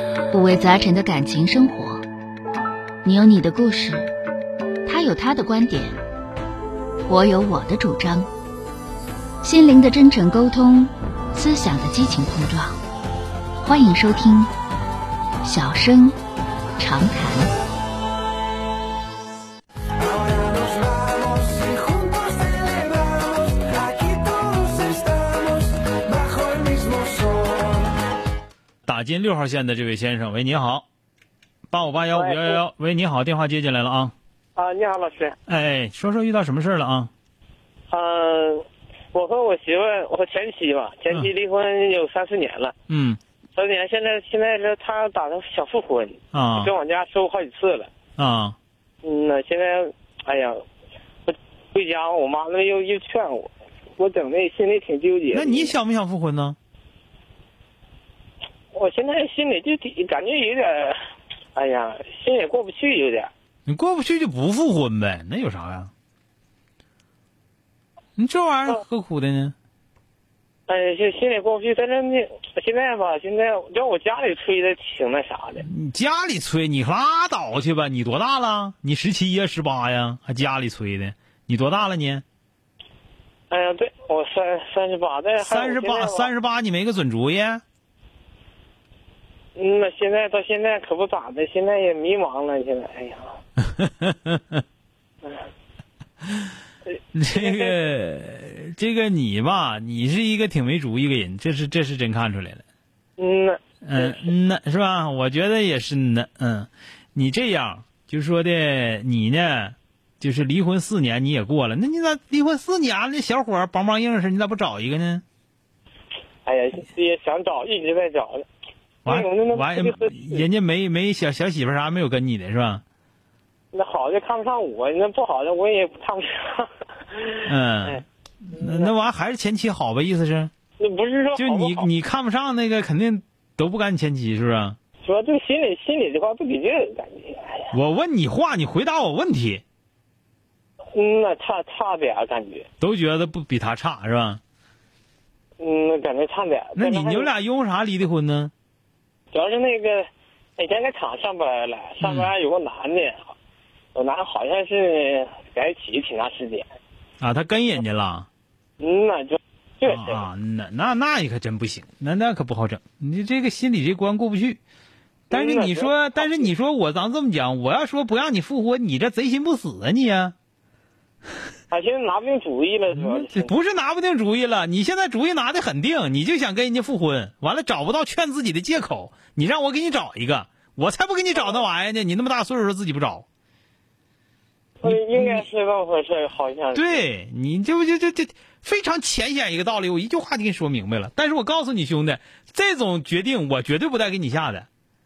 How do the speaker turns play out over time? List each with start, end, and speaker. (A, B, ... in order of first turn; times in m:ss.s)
0:00.3-0:02.0 A
0:03.0-0:04.1 A
0:04.8-0:06.0 A
0:07.1-0:08.3 A
0:09.4-0:12.8 A
0:13.6-0:14.5 A
0:15.4-0:16.2 A
0:16.8-0:17.5 A
0:28.8-0:30.8 B
0:31.7-0:34.1 B
0:32.1-0:32.6 C
0:34.6-0:35.4 C
0:35.5-0:37.1 B
0:37.9-0:42.7 C
0:42.9-0:43.2 B
0:43.5-0:47.9 C
0:46.3-0:46.7 B
0:48.2-0:48.6 B
0:49.0-0:50.6 C
0:51.2-0:55.7 C
0:55.3-0:56.6 B
0:58.7-1:01.0 C
1:01.5-1:03.3 C
1:03.7-1:05.9 B
1:08.2-1:09.5 B
1:10.7-1:15.6 C
1:15.6-1:22.2 B
1:23.5-1:26.3 C
1:25.4-1:27.6 B
1:29.5-1:33.4 C
1:33.8-1:34.6 B
1:37.1-1:42.6 B
1:37.3-1:37.8 C
1:43.2-1:44.3 C
1:43.8-1:55.2 B
1:56.4-1:58.5 C
1:59.0-2:02.8 B
1:59.1-2:00.4 C
2:03.7-2:08.0 C
2:07.4-2:10.5 B
2:08.5-2:08.9 C
2:10.8-2:11.9 C
2:11.4-2:14.8 B
2:15.0-2:17.7 C
2:17.7-2:19.6 B
2:20.9-2:22.6 C
2:22.8-2:24.4 B
2:25.6-2:27.3 C
2:26.8-2:28.5 B
2:29.3-2:33.3 C
2:32.0-2:32.3 B
2:33.9-2:36.7 C
2:37.2-2:38.3 B
2:38.8-2:40.2 C
2:39.8-2:44.6 B
2:45.3-2:50.3 B
2:45.3-2:46.5 C
2:51.7-2:53.5 C
2:52.9-3:03.2 B
3:01.3-3:01.6 C
3:04.8-3:07.0 C
3:04.8-3:05.4 B
3:06.7-3:14.6 B